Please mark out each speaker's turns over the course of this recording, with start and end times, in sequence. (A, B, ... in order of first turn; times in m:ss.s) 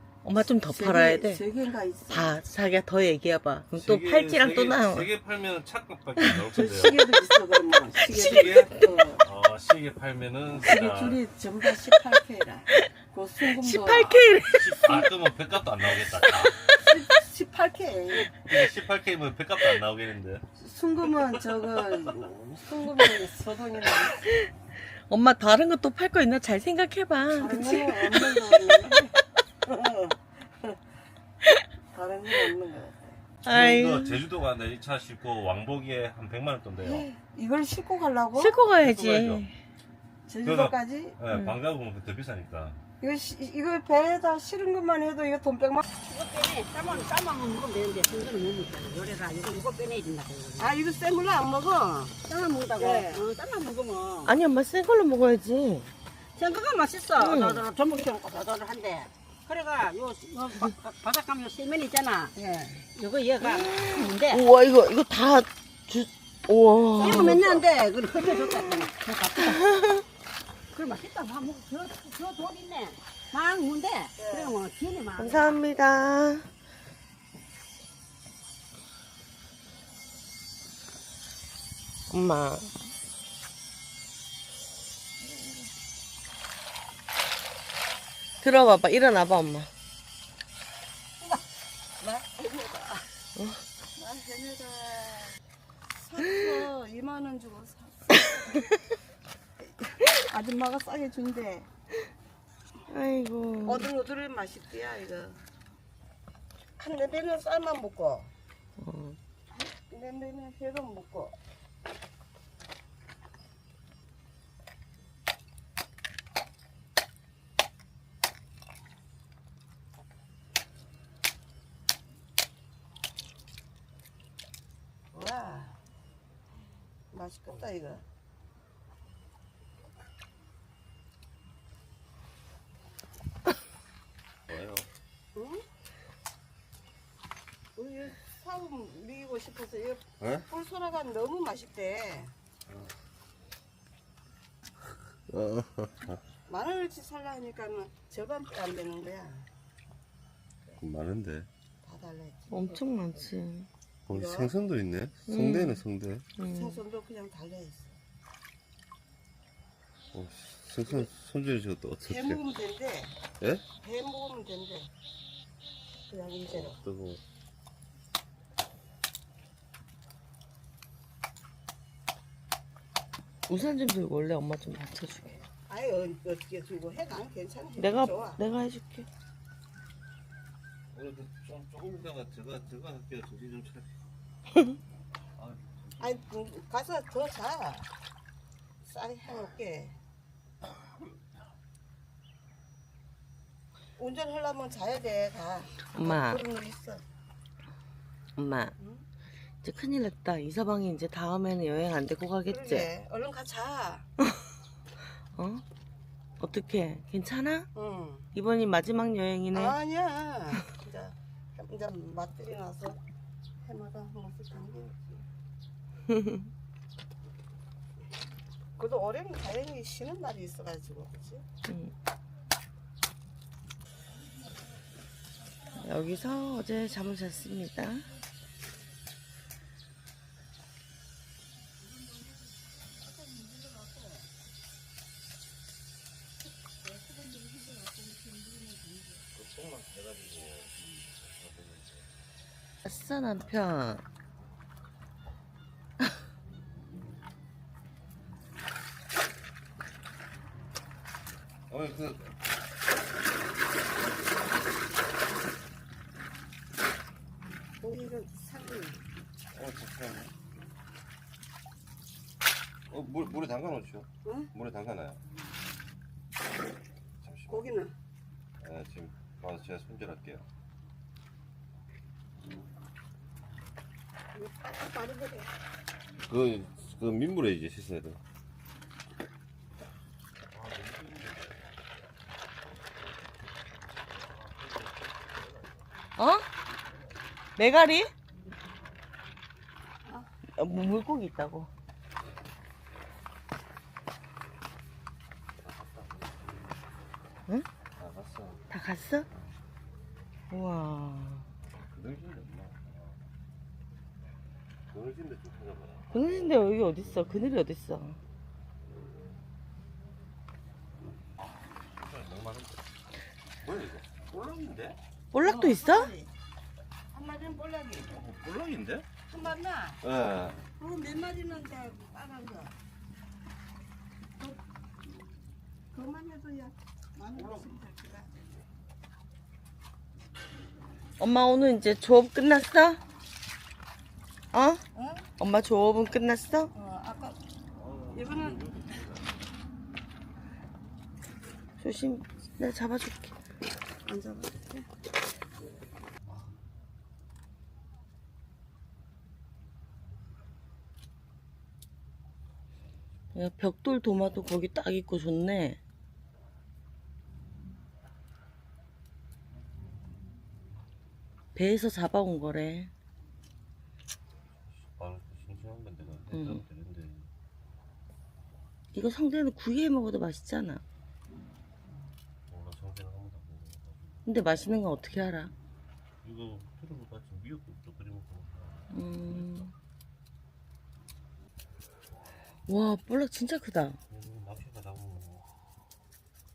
0:00.2-0:01.4 A
0:00.6-0:02.4 B
0:02.1-0:05.1 A
0:03.8-0:07.1 C
0:06.5-0:09.2 B
0:08.1-0:11.2 C
0:10.5-0:14.2 B
0:13.5-0:15.0 A
0:14.5-0:16.6 C
0:16.8-0:18.4 B
0:18.3-0:20.4 C
0:20.6-0:24.5 B
0:25.1-0:28.4 A
0:27.3-0:30.8 B
0:31.9-0:33.1 B
0:33.4-0:34.2 A
0:33.5-0:37.1 C
0:36.8-0:38.5 B
0:38.3-0:39.5 A
0:38.8-0:39.4 C
0:40.3-0:41.2 B
0:40.4-0:42.8 C
0:41.3-0:41.6 A
0:43.0-0:45.8 B
0:46.0-0:50.7 D
0:50.6-0:52.2 B
0:52.2-0:54.3 D
0:52.8-0:53.2 B
0:54.2-0:55.9 A
0:56.4-1:04.4 D
0:57.2-0:57.6 A
1:02.4-1:02.7 B
1:03.4-1:07.5 A
1:07.0-1:09.6 D
1:07.0-1:07.6 B
1:08.5-1:08.8 A
1:09.4-1:10.0 A
1:10.7-1:15.6 D
1:14.2-1:14.6 B
1:15.2-1:16.5 A
1:22.1-1:22.7 A
1:28.4-1:29.7 A
1:32.0-1:33.0 B
1:33.4-1:33.6 A
1:34.0-1:35.4 B
1:36.0-1:38.6 B
1:39.8-1:41.7 B
1:42.9-1:43.9 A
1:43.6-1:45.4 B
1:46.8-1:48.3 B
1:48.8-1:49.2 A
1:49.6-1:51.4 B
2:05.1-2:05.8 B
2:07.1-2:08.0 B
2:14.5-2:14.9 C
2:15.3-2:15.6 B
2:17.8-2:22.3 B
2:20.2-2:20.5 C
2:25.3-2:26.2 C
2:26.5-2:29.5 B
2:30.8-2:31.5 C
2:31.8-2:32.8 B
2:32.5-2:33.7 A
2:34.1-2:36.2 C
2:34.1-2:34.5 B
2:35.3-2:35.8 A
2:36.4-2:36.8 A
2:36.4-2:38.0 B
2:40.1-2:42.5 C
2:42.0-2:43.2 B
2:43.4-2:43.6 C
2:43.8-2:44.9 B
2:46.1-2:46.8 B
2:46.5-2:47.2 C
2:53.5-2:55.4 A
2:55.7-2:58.4 B
2:57.8-2:59.1 A
3:00.9-3:03.9 C
3:05.4-3:06.1 C
3:06.0-3:07.9 B
3:08.8-3:10.0 B
3:14.0-3:17.0 B
3:15.9-3:16.4 A
3:18.4-3:18.7 A
3:18.8-3:19.0 B
3:19.6-3:22.9 A
3:22.5-3:24.1 B
3:25.3-3:25.6 A
3:26.4-3:27.7 A
3:27.7-3:28.3 B
3:28.3-3:29.8 A
3:29.5-3:33.0 B
3:33.6-3:35.2 B
3:36.1-3:36.5 A
3:38.8-3:41.4 B
3:41.6-3:41.9 A
3:45.7-3:48.0 A
3:57.5-3:58.7 B
3:59.3-4:02.1 C
4:02.8-4:04.0 A
4:11.7-4:12.3 C
4:17.8-4:19.0 B
4:19.5-4:20.3 C
4:22.9-4:25.2 C
4:24.2-4:24.5 B
4:27.2-4:27.6 C
4:27.5-4:27.9 B
4:28.6-4:30.5 C
4:34.4-4:35.5 B
4:36.2-4:38.2 C
4:40.5-4:41.6 C
4:44.4-4:45.8 C
4:46.2-4:46.5 A
4:47.6-4:48.1 A
4:50.6-4:51.7 A
4:55.6-4:56.8 C
4:58.0-4:58.6 C
4:58.7-4:59.3 A
5:00.5-5:01.5 A
5:01.6-5:03.2 C
5:04.9-5:06.6 C
5:06.1-5:08.2 A
5:11.9-5:12.8 C
5:13.6-5:15.0 C
5:15.3-5:16.1 A
5:15.4-5:16.3 B
5:17.1-5:18.1 B
5:18.1-5:19.1 C
5:19.3-5:20.0 B
5:20.0-5:20.6 C
5:20.8-5:22.7 B
5:25.9-5:28.3 B
5:31.2-5:33.0 A
5:34.5-5:34.8 A
5:35.0-5:35.2 B
5:35.4-5:36.7 A
5:36.7-5:37.4 B
5:37.8-5:39.4 C
5:38.1-5:38.6 B
5:41.8-5:43.3 A
5:44.0-5:44.9 B
5:46.2-5:46.5 C
5:53.3-5:55.8 A
6:01.6-6:02.9 A
6:04.7-6:07.3 C
6:06.3-6:06.6 A
6:08.9-6:10.8 A
6:12.5-6:14.4 C
6:14.2-6:15.5 A
6:16.2-6:19.6 C
6:18.9-6:19.7 A
6:22.7-6:24.0 A
6:24.1-6:25.5 C